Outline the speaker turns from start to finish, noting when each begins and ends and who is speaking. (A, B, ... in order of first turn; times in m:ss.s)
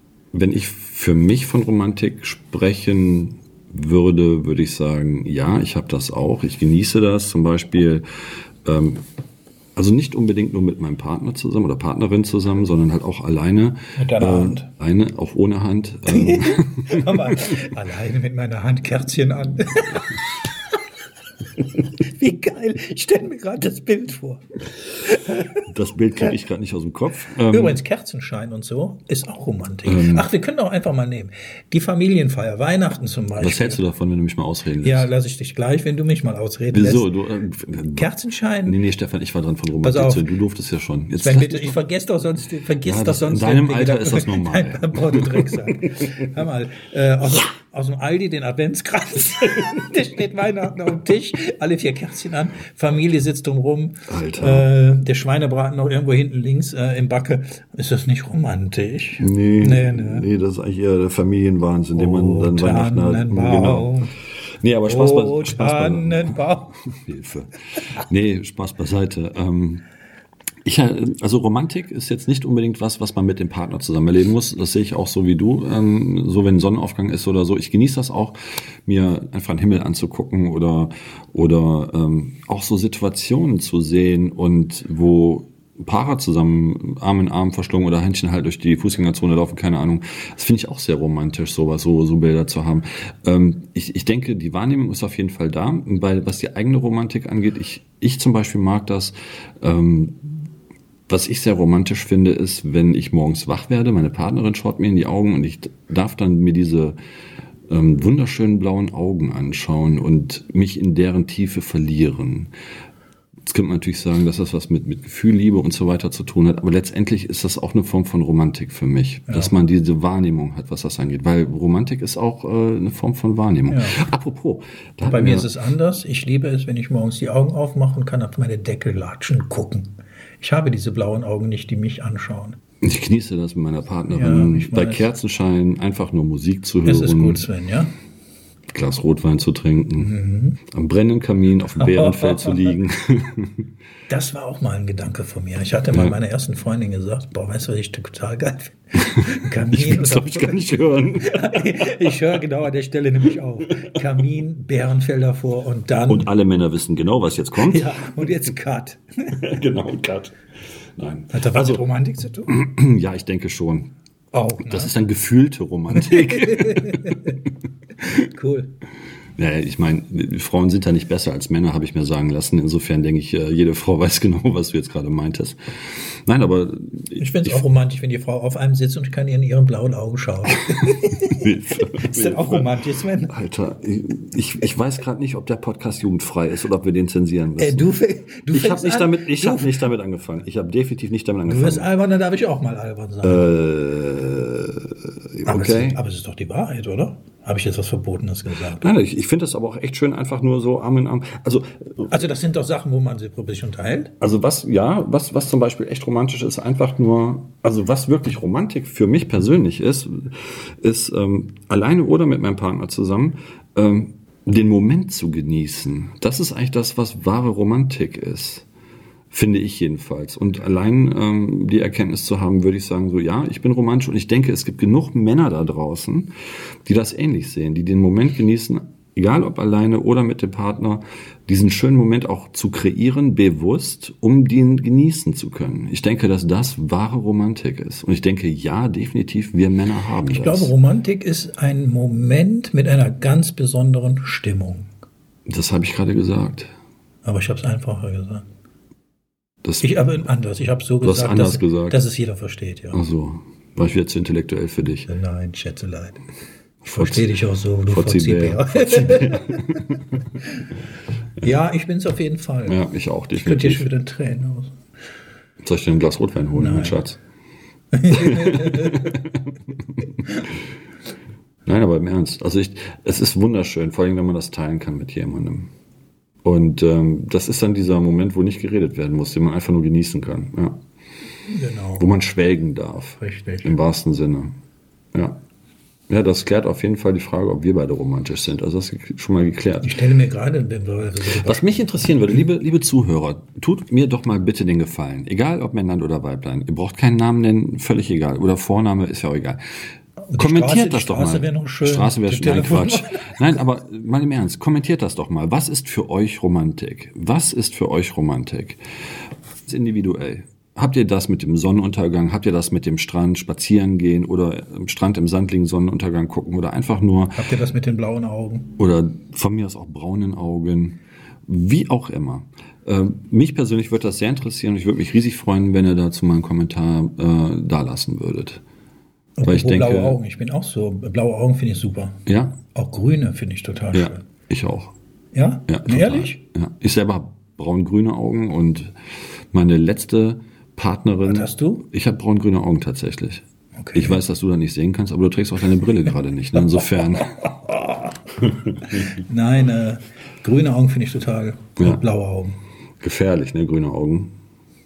0:00.3-0:08.0 A
0:08.6-0:09.0 A
0:09.8-0:17.4 A
0:14.0-0:14.7 B
0:16.1-0:20.3 B
0:22.0-0:24.4 B
0:25.0-0:25.6 B
0:25.7-0:27.8 A
0:27.5-0:33.8 B
0:29.8-0:30.3 A
0:33.4-0:35.1 A
0:34.8-0:37.1 B
0:36.7-0:38.1 A
0:37.9-0:38.8 B
0:38.6-0:41.8 A
0:39.8-0:40.3 B
0:41.2-1:00.2 B
0:42.8-0:45.7 A
0:54.1-0:54.7 A
0:59.2-1:04.0 A
1:01.9-1:04.1 B
1:04.6-1:09.8 A
1:04.8-1:06.8 B
1:10.6-1:40.5 A
1:41.1-1:47.0 A
1:47.7-1:52.5 A
1:53.5-2:05.5 A
1:59.3-1:59.5 B
2:03.7-2:04.0 B
2:05.0-2:12.6 B
2:12.8-2:17.4 A
2:14.1-2:15.1 B
2:16.8-2:17.9 B
2:18.7-2:20.1 A
2:20.0-2:20.6 B
2:20.7-2:23.6 A
2:21.8-2:22.8 B
2:24.1-2:30.6 B
2:29.3-2:32.2 A
2:31.2-2:36.3 B
2:36.1-2:38.0 A
2:37.6-2:39.4 B
2:39.4-2:40.4 A
2:41.0-2:41.8 A
2:41.3-2:42.5 B
2:42.5-2:43.9 A
2:44.3-2:44.9 B
2:44.6-2:47.3 A
2:45.9-2:47.4 B
2:48.0-2:48.7 B
2:49.4-2:57.6 A
2:57.2-3:03.3 B
3:00.8-3:02.7 A
3:03.3-3:07.9 A
3:07.6-3:09.8 B
3:08.5-3:11.9 A
3:11.4-3:13.5 B
3:13.2-3:16.0 A
3:15.4-3:18.9 B
3:18.8-3:22.1 A
3:22.1-3:24.1 B
3:24.2-3:38.6 A
3:39.3-3:46.3 A
3:46.8-4:00.7 A
4:00.2-4:04.9 B
4:05.5-4:06.7 A
4:07.2-4:08.4 B
4:09.6-4:10.1 A
4:09.8-4:13.0 B
4:11.0-4:12.0 A
4:12.9-4:15.1 A
4:15.1-4:16.2 B
4:16.8-4:17.3 A
4:16.9-4:19.6 B
4:17.9-4:20.2 A
4:21.4-4:22.8 B
4:22.6-4:23.9 A
4:23.4-4:24.7 B
4:25.6-4:27.2 A
4:26.5-4:27.0 B
4:27.9-4:29.1 B
4:28.1-4:30.2 A
4:31.6-4:35.7 A
4:36.4-4:40.8 A
4:41.5-4:42.1 B
4:42.0-4:44.5 A
4:43.2-4:43.7 B
4:45.1-4:45.4 A
4:46.1-4:50.0 A
4:49.8-4:51.7 B
4:51.4-4:59.6 A
5:00.3-5:03.6 B
5:00.4-5:08.8 A
5:09.6-5:17.4 A
5:17.4-5:18.7 B
5:18.8-5:28.6 A
5:29.4-5:32.2 B
5:29.4-5:30.2 A
5:32.3-5:32.6 A
5:32.7-5:34.2 B
5:33.9-5:34.9 A
5:35.3-5:36.4 B
5:35.7-5:38.9 A
5:39.5-5:47.4 A
5:41.2-5:41.8 B
5:43.8-5:44.2 B
5:46.6-5:48.1 B
5:48.4-5:49.1 A
5:48.9-5:52.6 B
5:53.0-5:54.3 A